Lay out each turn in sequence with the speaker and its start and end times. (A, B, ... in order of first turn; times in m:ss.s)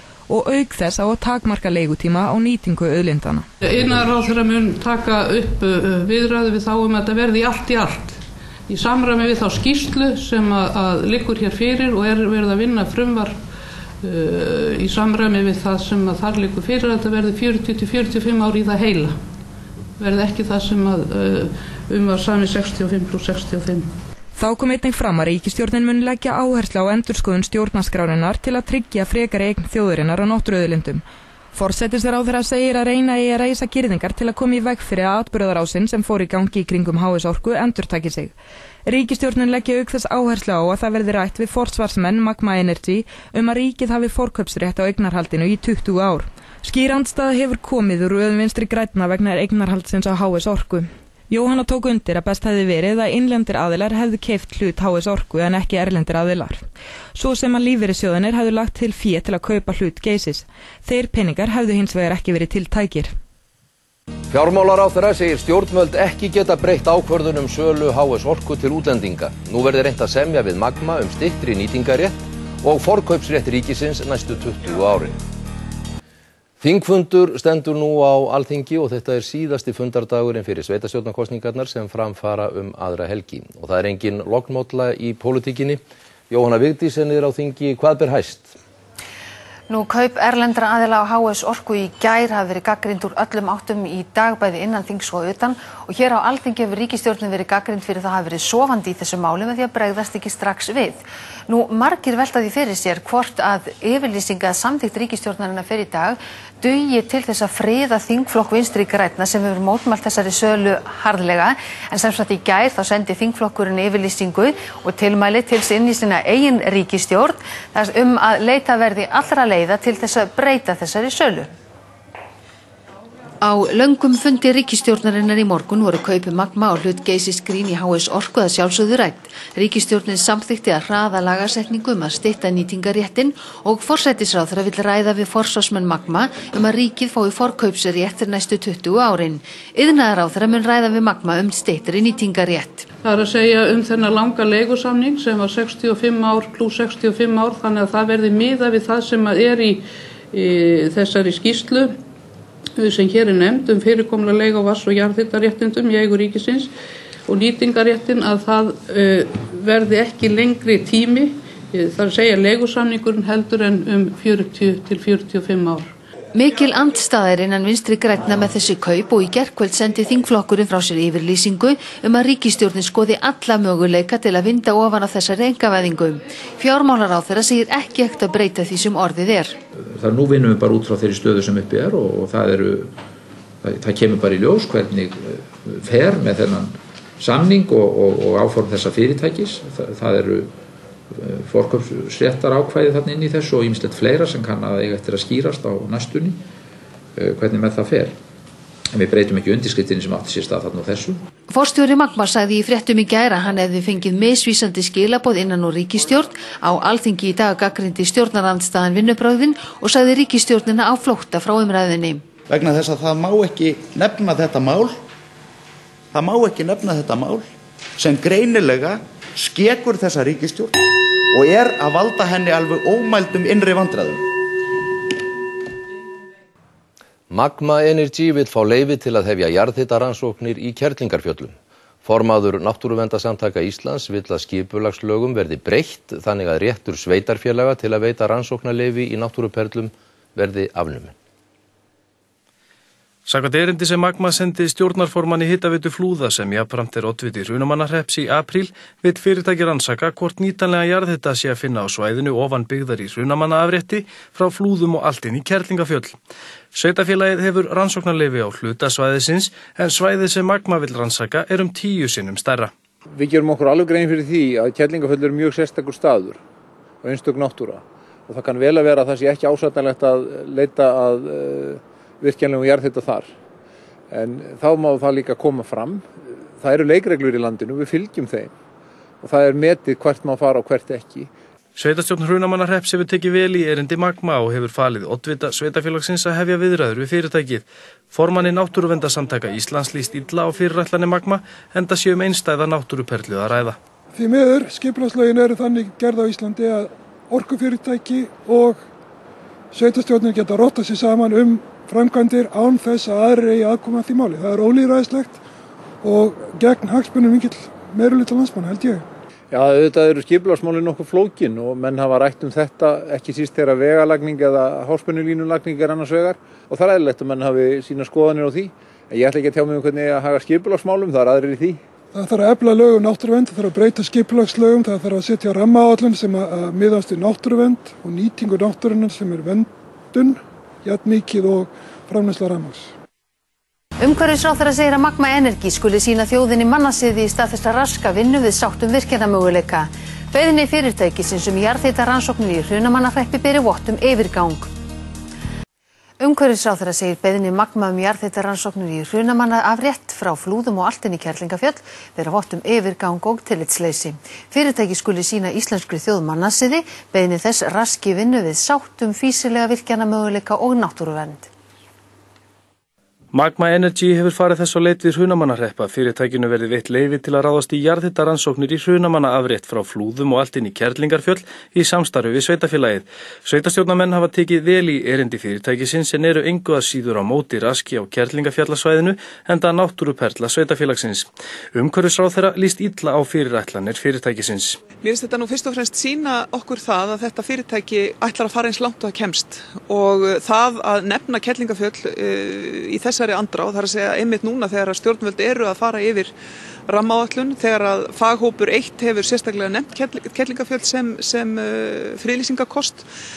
0:00.3-0:03.5 A
0:03.6-0:13.4 B
0:14.0-0:19.2 B
0:20.0-0:23.9 B
0:24.4-0:31.0 A
0:31.5-0:38.3 A
0:38.9-1:03.1 A
1:04.3-1:15.2 C
1:16.6-1:28.6 C
1:29.7-2:01.5 D
2:03.4-2:22.9 D
2:23.0-2:32.0 B
2:32.8-2:36.7 B
2:37.3-2:45.9 B
2:46.3-2:59.6 D
2:59.8-3:02.9 E
3:03.6-3:10.5 E
3:11.1-3:16.4 E
3:17.2-3:18.2 E
3:18.9-3:21.2 E
3:21.5-3:32.2 D
3:32.5-3:35.0 F
3:36.1-3:37.5 F
3:38.0-3:44.3 F
3:47.3-4:01.1 C
4:03.3-4:16.2 G
4:16.7-4:22.7 G
4:23.1-4:26.4 H
4:27.0-4:33.3 H
4:34.1-4:38.5 H
4:39.2-4:41.3 H
4:41.8-4:53.8 G
4:54.1-4:58.8 I
4:59.7-5:05.4 I
5:06.0-5:09.1 I
5:09.5-5:21.8 H
5:22.1-5:32.9 I
5:34.0-5:44.7 D
5:46.2-6:01.5 D
6:03.3-6:24.8 G
6:25.0-6:36.3 J
6:36.9-6:43.1 J